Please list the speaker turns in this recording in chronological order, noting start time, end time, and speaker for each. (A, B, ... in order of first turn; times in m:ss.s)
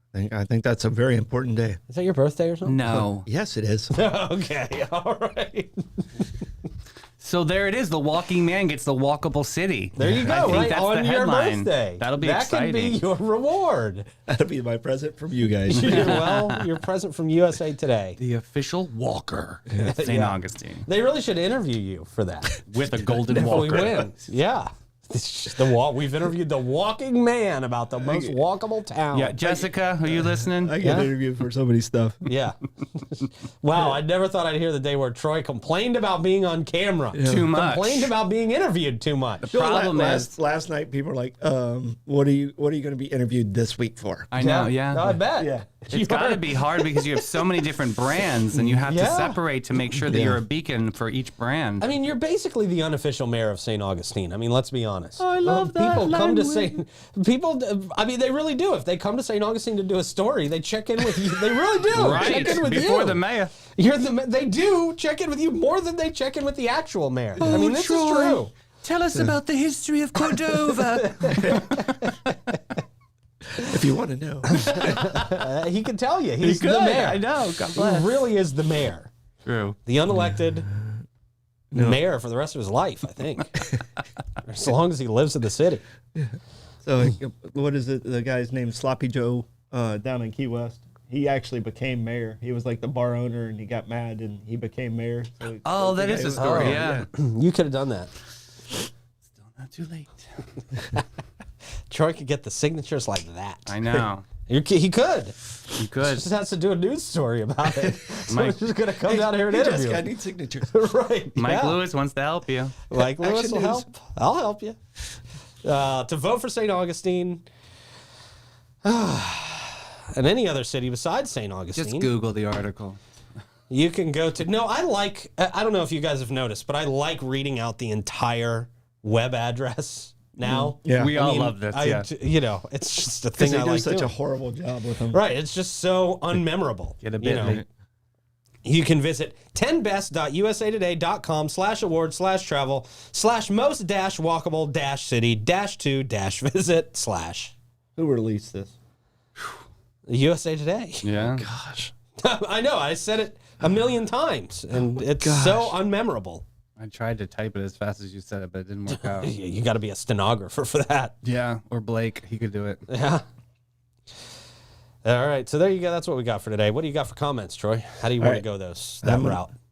0:00.1-0:01.8 A
0:01.9-0:02.8 B
0:02.6-0:03.3 C
0:02.9-0:03.9 A
0:03.9-0:06.3 B
0:07.2-0:13.0 C
0:10.0-0:14.1 B
0:10.0-0:10.7 A
0:14.3-0:16.2 A
0:15.7-0:18.2 B
0:15.8-0:16.6 C
0:18.2-0:20.9 C
0:19.8-0:22.6 B
0:22.7-0:24.1 C
0:23.3-0:29.7 B
0:28.0-0:28.4 A
0:29.1-0:30.8 C
0:30.1-0:32.2 A
0:30.8-0:31.1 B
0:32.2-0:39.5 B
0:37.1-0:37.5 A
0:37.2-0:38.1 C
0:39.4-0:40.3 C
0:39.5-0:44.3 A
0:44.3-0:45.2 C
0:44.4-0:47.6 B
0:45.4-0:45.7 A
0:45.9-0:51.9 C
0:48.8-0:49.4 B
0:50.0-0:50.4 A
0:51.8-1:08.5 B
0:55.2-0:56.7 C
1:01.9-1:03.5 C
1:07.4-1:07.6 A
1:07.4-1:12.5 C
1:10.3-1:12.4 B
1:13.6-1:15.1 A
1:14.5-1:19.1 B
1:14.7-1:15.0 C
1:16.4-1:18.2 C
1:19.4-1:19.8 C
1:19.9-1:20.7 B
1:20.2-1:20.9 A
1:21.7-1:22.0 A
1:21.8-1:23.6 B
1:24.4-1:25.8 B
1:26.2-1:37.1 A
1:35.6-1:37.1 C
1:36.3-1:38.1 B
1:39.4-1:40.4 C
1:41.9-1:43.7 B
1:43.7-1:44.3 C
1:44.5-1:45.4 B
1:45.8-1:46.3 C
1:46.0-1:51.8 B
1:48.3-1:48.7 C
1:49.0-1:50.7 A
1:51.4-1:52.8 C
1:52.9-1:54.8 B
1:52.9-1:53.9 A
1:55.6-1:57.4 B
1:58.8-2:02.1 B
2:01.8-2:03.0 C
2:03.7-2:14.1 B
2:10.4-2:11.1 A
2:10.9-2:12.1 C
2:13.4-2:15.2 A
2:15.1-2:17.6 B
2:17.0-2:17.6 C
2:17.4-2:17.7 A
2:18.6-2:27.5 B
2:28.0-2:28.7 A
2:30.1-2:31.0 B
2:31.0-2:31.5 C
2:31.2-2:31.9 A
2:32.2-2:36.4 B
2:34.8-2:35.8 A
2:36.8-2:39.3 C
2:38.9-2:41.2 B
2:41.2-2:42.8 C
2:42.9-2:43.2 B
2:45.0-2:49.5 B
2:48.2-2:48.4 A
2:49.0-2:49.4 A